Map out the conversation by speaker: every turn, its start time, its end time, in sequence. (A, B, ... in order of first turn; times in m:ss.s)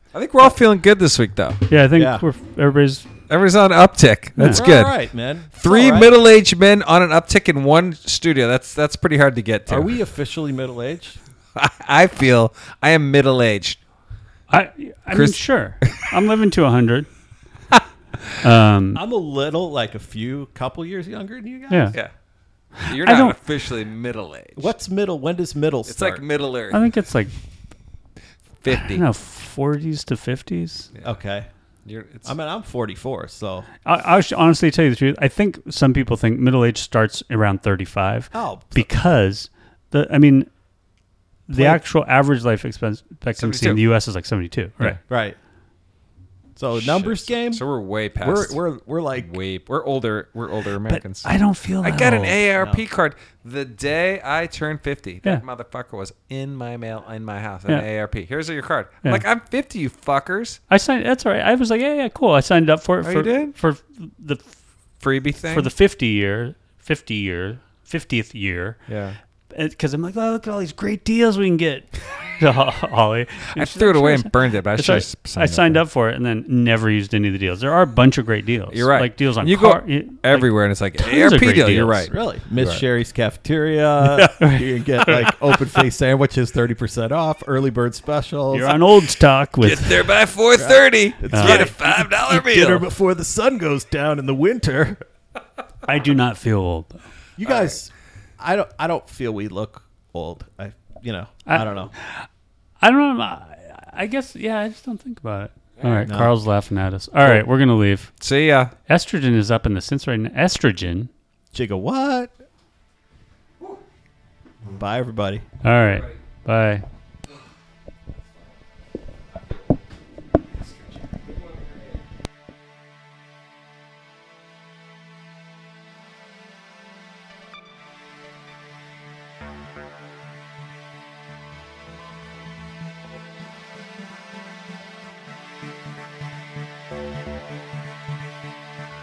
0:00.1-0:01.6 A
0:01.7-0:03.1 B
0:01.9-0:02.2 C
0:03.3-0:05.0 A
0:04.4-0:04.6 B
0:04.5-0:06.1 C
0:05.5-0:10.0 A
0:09.7-0:11.2 C
0:11.6-0:13.8 A
0:14.5-0:17.1 B
0:15.1-0:16.1 A
0:18.4-0:19.0 B
0:18.9-0:22.0 C
0:21.7-0:22.0 B
0:22.8-0:24.7 A
0:22.8-0:23.4 B
0:24.6-0:26.2 C
0:25.8-0:26.8 A
0:26.7-0:27.3 B
0:28.6-0:29.0 A
0:28.7-0:30.9 B
0:31.0-0:31.5 C
0:31.8-0:32.3 A
0:32.2-0:33.7 C
0:33.8-0:40.5 B
0:38.3-0:38.9 C
0:41.5-0:45.0 B
0:41.5-0:41.8 C
0:43.4-0:43.8 A
0:45.1-0:45.4 C
0:46.6-0:47.6 C
0:46.7-0:48.6 A
0:48.2-0:49.3 C
0:49.2-1:00.6 A
0:50.9-0:52.4 B
0:52.6-0:52.8 C
1:00.7-1:04.6 B
1:03.0-1:03.6 A
1:05.0-1:05.7 A
1:05.4-1:08.9 B
1:08.9-1:09.2 A
1:09.5-1:22.1 B
1:13.5-1:15.8 A
1:18.7-1:22.8 A
1:22.1-1:28.8 C
1:24.1-1:25.3 B
1:28.5-1:30.1 B
1:29.6-1:32.8 A
1:30.6-1:35.0 C
1:31.3-1:31.9 B
1:35.8-1:37.0 B
1:37.4-1:41.9 C
1:37.5-1:37.7 A
1:41.5-1:42.3 B
1:42.8-1:48.1 B
1:45.8-1:46.1 A
1:46.0-1:46.4 C
1:48.2-1:48.7 A
1:48.9-1:51.1 B
1:51.5-1:52.3 C
1:54.7-1:55.4 C
1:55.6-1:56.8 B
1:55.9-1:56.2 A
2:01.6-2:01.8 A